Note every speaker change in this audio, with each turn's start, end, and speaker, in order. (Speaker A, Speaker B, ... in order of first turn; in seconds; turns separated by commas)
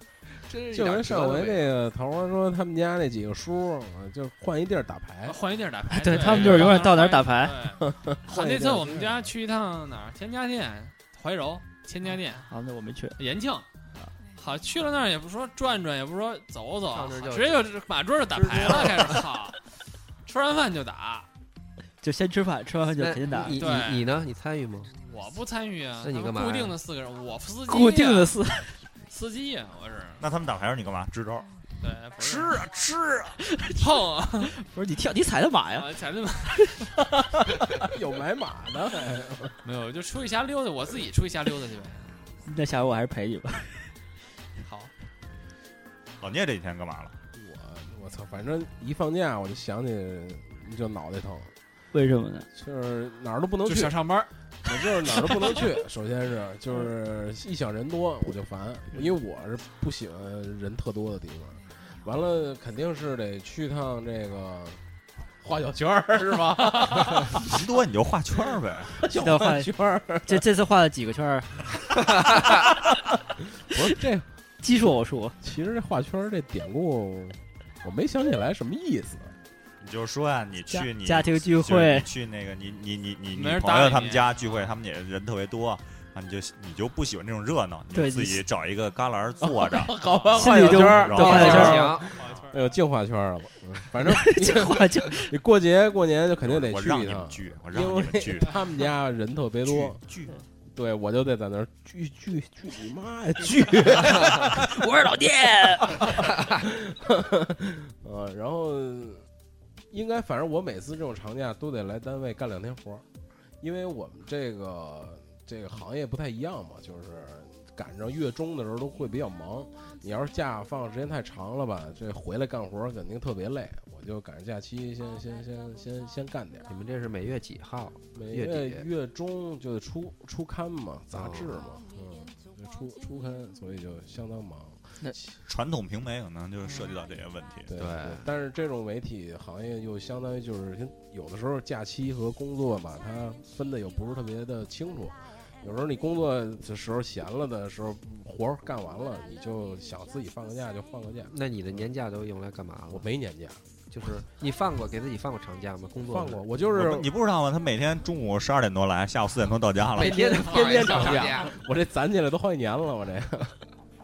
Speaker A: 0.5-1.7, Speaker B: 0.7-5.4, Speaker C: 5.3-12.5, Speaker D: 5.9-7.8, Speaker B: 7.8-9.3, Speaker D: 12.5-13.2, Speaker C: 13.2-13.7, Speaker C: 14.4-19.6, Speaker A: 16.9-17.7, Speaker A: 18.3-19.3, Speaker C: 20.2-21.3, Speaker D: 22.0-23.6, Speaker A: 23.0-24.9, Speaker C: 23.6-24.1, Speaker C: 25.0-28.4, Speaker A: 26.0-26.8, Speaker D: 27.7-28.8, Speaker C: 29.1-30.2, Speaker E: 30.2-31.5, Speaker C: 31.8-32.6, Speaker E: 32.2-33.4, Speaker D: 33.4-33.8, Speaker C: 33.8-34.5, Speaker D: 34.5-35.9, Speaker C: 35.7-36.9, Speaker D: 36.5-37.9, Speaker B: 37.8-39.6, Speaker C: 39.6-42.1, Speaker D: 42.5-43.9, Speaker C: 44.6-44.9, Speaker E: 46.2-47.2, Speaker B: 47.4-51.5, Speaker D: 51.9-52.5, Speaker B: 52.5-54.0, Speaker C: 53.7-54.3, Speaker B: 54.6-64.8, Speaker B: 65.4-67.5, Speaker E: 67.3-69.0, Speaker B: 69.0-70.5, Speaker D: 69.1-69.7, Speaker D: 70.3-72.6, Speaker B: 73.7-74.3, Speaker D: 74.6-75.4, Speaker B: 75.4-79.3, Speaker E: 79.8-91.8, Speaker D: 80.7-82.1, Speaker C: 83.3-84.8, Speaker D: 87.9-88.4, Speaker B: 89.4-100.0, Speaker D: 90.3-92.0, Speaker A: 91.0-92.2, Speaker C: 91.4-92.8, Speaker D: 94.1-95.3, Speaker E: 96.4-98.6, Speaker E: 99.6-100.3, Speaker B: 100.7-104.8, Speaker D: 104.1-106.3, Speaker B: 106.0-109.2, Speaker B: 109.9-113.0, Speaker B: 113.6-126.7, Speaker A: 126.7-128.9, Speaker B: 128.2-135.3, Speaker A: 131.2-131.6, Speaker E: 135.5-137.7, Speaker C: 136.7-136.9, Speaker B: 137.7-151.9, Speaker A: 137.7-138.3, Speaker A: 151.3-153.1, Speaker B: 152.9-153.6, Speaker A: 153.9-156.4, Speaker B: 156.1-157.1, Speaker E: 156.7-160.3, Speaker A: 159.9-161.6, Speaker B: 160.0-163.6, Speaker C: 160.4-161.3